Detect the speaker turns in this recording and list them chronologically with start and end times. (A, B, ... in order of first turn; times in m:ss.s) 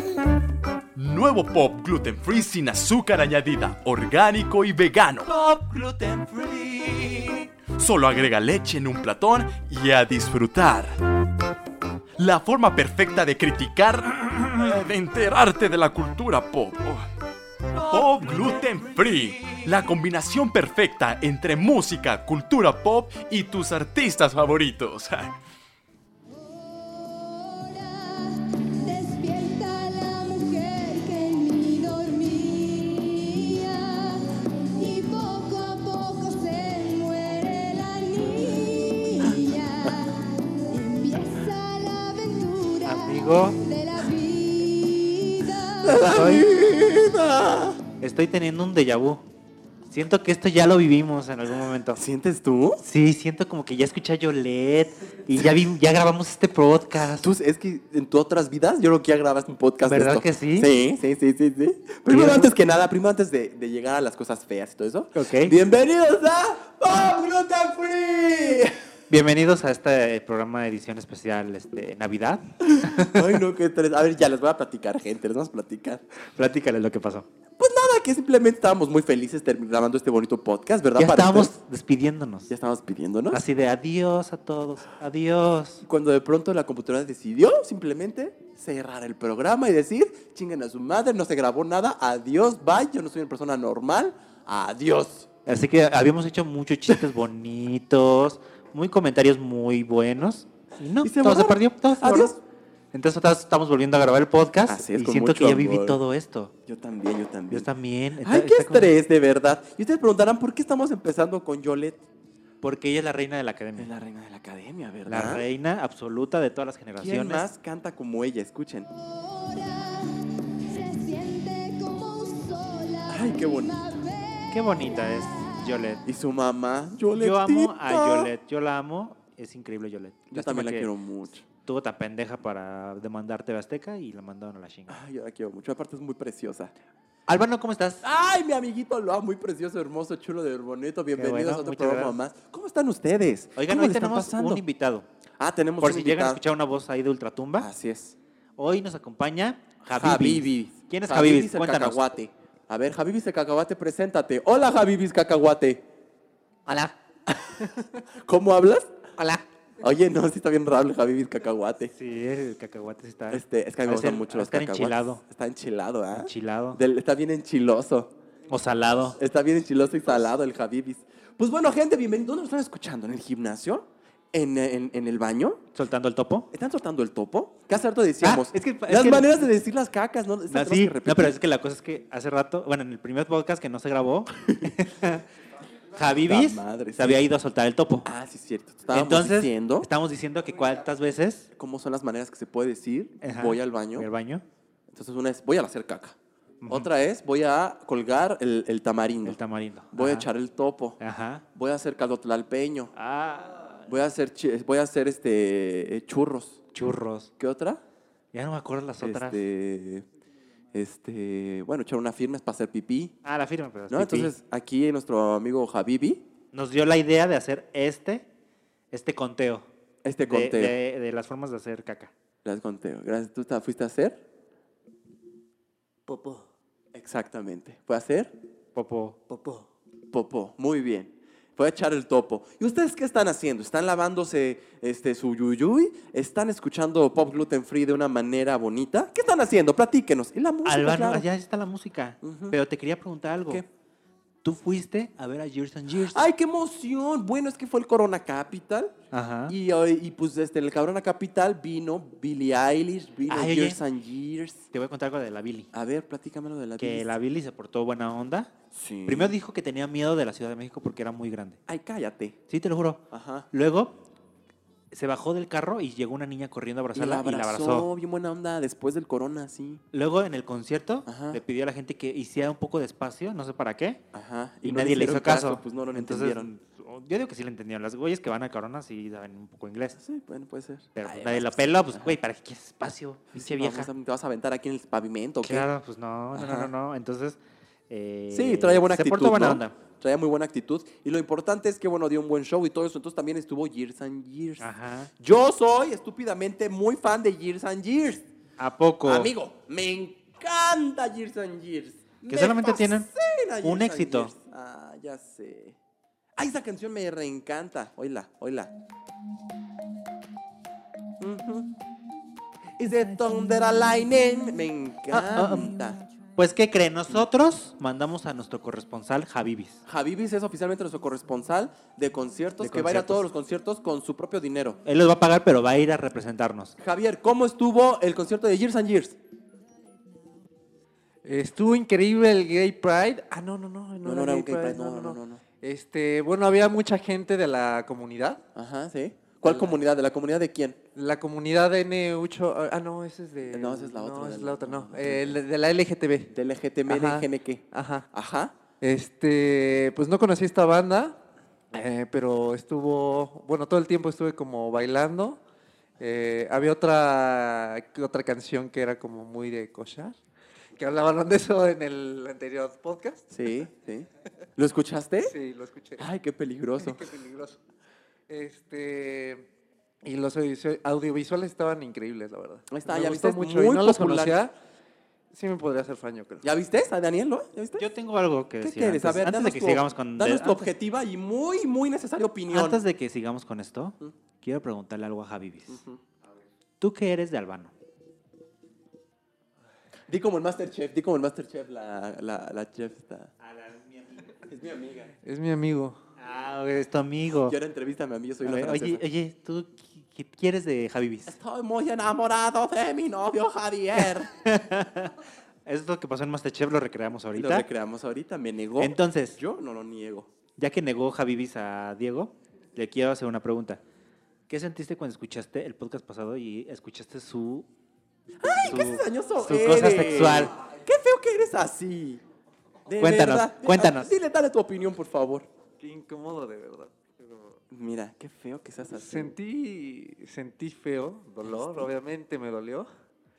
0:01.0-0:05.3 A
0:05.1-0:08.4 B
0:07.7-0:10.9 A
0:09.1-0:10.5 B
0:12.2-0:17.0 A
0:13.9-0:15.4 B
0:17.7-0:20.3 B
0:17.9-0:25.3 A
0:21.9-0:25.0 B
0:26.4-0:46.1 C
0:42.8-0:43.6 D
0:45.8-0:47.8 B
0:46.0-0:46.5 D
0:48.0-0:49.2 D
0:49.9-0:52.0 D
0:52.0-0:52.8 B
0:52.8-0:57.3 D
0:57.2-1:08.8 B
0:59.8-1:00.7 D
1:02.1-1:02.5 D
1:05.1-1:05.6 D
1:09.1-1:13.4 D
1:12.6-1:16.0 B
1:16.4-1:17.2 D
1:17.6-1:21.5 B
1:21.0-1:22.5 D
1:22.5-1:23.4 B
1:23.3-1:25.8 D
1:25.8-1:35.3 B
1:35.4-1:42.3 D
1:41.0-1:42.4 B
1:42.9-1:46.5 D
1:44.7-1:46.0 B
1:46.6-1:47.7 B
1:47.5-1:48.9 D
1:48.2-1:52.0 B
1:52.6-1:53.9 D
1:53.8-1:55.4 B
1:55.1-1:57.5 D
1:57.0-1:58.9 B
1:59.0-2:05.7 C
2:03.1-2:03.8 B
2:04.5-2:06.0 D
2:06.0-2:08.3 B
2:07.1-2:10.9 D
2:10.3-2:11.4 B
2:11.6-2:15.0 D
2:14.9-2:16.8 B
2:17.3-2:18.0 D
2:18.0-2:24.6 B
2:21.1-2:22.2 D
2:23.6-2:25.1 D
2:25.4-2:26.4 B
2:25.8-2:27.7 D
2:27.6-2:28.2 B
2:28.6-2:32.0 D
2:29.8-2:35.8 B
2:36.7-2:36.9 D
2:38.0-2:38.9 B
2:39.2-2:39.4 D
2:39.8-2:41.9 B
2:41.9-2:45.2 D
2:43.3-2:48.1 B
2:46.1-2:46.8 D
2:48.5-2:49.2 D
2:49.2-2:55.6 B
2:55.7-2:56.5 D
2:56.5-3:01.4 B
2:58.2-2:59.3 D
3:00.5-3:05.2 D
3:05.9-3:08.1 D
3:06.0-3:07.2 B
3:08.0-3:09.9 B
3:08.9-3:11.5 D
3:11.6-3:14.1 B
3:13.2-3:14.4 D
3:14.9-3:16.2 B
3:16.6-3:16.9 D
3:16.7-3:19.4 B
3:19.2-3:20.3 D
3:19.9-3:21.0 B
3:21.0-3:21.4 D
3:21.5-3:22.9 B
3:22.9-3:23.9 D
3:23.9-3:26.6 B
3:26.7-3:27.3 D
3:27.4-3:27.8 B
3:28.3-3:29.4 D
3:29.0-3:30.0 B
3:30.7-3:33.1 B
3:33.2-3:34.3 D
3:33.9-3:36.2 B
3:36.5-3:38.3 D
3:38.9-3:39.6 D
3:40.0-3:40.8 B
3:40.3-3:42.1 D
3:42.4-3:44.2 B
3:46.0-3:46.4 E
3:46.9-3:48.3 B
3:48.7-3:49.2 D
3:49.3-3:49.7 E
3:50.1-4:01.2 B
4:00.6-4:03.6 D
4:02.2-4:02.6 B
4:04.4-4:06.2 D
4:05.9-4:08.9 B
4:09.1-4:09.6 D
4:09.5-4:14.7 B
4:13.3-4:13.8 D
4:14.7-4:15.7 D
4:15.7-4:17.1 B
4:16.8-4:18.5 D
4:18.7-4:19.3 B
4:19.0-4:21.6 D
4:21.7-4:22.4 B
4:22.5-4:24.0 D
4:23.1-4:23.5 B
4:24.9-4:27.9 D
4:26.9-4:29.8 B
4:29.9-4:34.0 D
4:31.0-4:31.4 B
4:34.1-4:36.5 B
4:34.6-4:40.0 D
4:40.0-4:42.2 B
4:41.0-4:43.9 D
4:43.3-4:45.7 B
4:45.4-4:49.8 D
4:46.3-4:46.7 B
4:48.3-4:54.7 B
4:54.6-4:55.1 D
4:55.2-4:58.3 B
4:58.6-4:59.3 D
4:59.0-5:05.8 B
5:02.3-5:03.1 D
5:03.6-5:04.3 D
5:06.4-5:08.7 B
5:11.2-5:11.7 B
5:12.8-5:16.0 B
5:15.1-5:15.8 D
5:16.4-5:19.8 D
5:19.8-5:24.8 B
5:22.6-5:23.2 D
5:24.8-5:26.7 D
5:26.8-5:29.2 B
5:31.2-5:38.4 E
5:34.0-5:35.4 B
5:38.5-5:40.8 B
5:39.4-5:39.8 E
5:40.9-5:46.3 E
5:43.5-5:45.4 B
5:46.3-5:48.5 B
5:46.9-5:48.1 E
5:48.8-5:51.2 E
5:51.7-5:55.4 E
5:56.0-6:00.2 E
6:00.8-6:03.3 E
6:03.3-6:05.3 B
6:05.2-6:06.0 E
6:06.0-6:07.0 B
6:06.8-6:07.6 E
6:08.3-6:09.5 E
6:10.0-6:14.5 E
6:12.7-6:14.4 B
6:15.3-6:16.5 E
6:16.4-6:17.9 B
6:17.8-6:20.7 D
6:18.6-6:22.8 B
6:22.5-6:25.8 D
6:25.7-6:26.0 B
6:26.8-6:27.7 D
6:30.1-6:33.3 B
6:33.4-6:34.4 D
6:34.4-6:35.1 B
6:35.2-6:36.0 E
6:36.2-6:37.6 D
6:37.4-6:39.0 B
6:38.4-6:41.4 D
6:41.3-6:44.3 B
6:44.0-6:45.1 D
6:45.6-6:47.6 D
6:47.3-6:50.3 B
6:48.8-6:49.4 D
6:50.6-6:53.8 D
6:54.5-6:57.7 D
6:58.4-7:02.2 B
6:58.6-7:00.5 D
7:02.8-7:05.5 B
7:03.0-7:04.1 D
7:05.8-7:07.6 E
7:07.7-7:09.3 B
7:08.9-7:12.9 E
7:11.5-7:11.8 B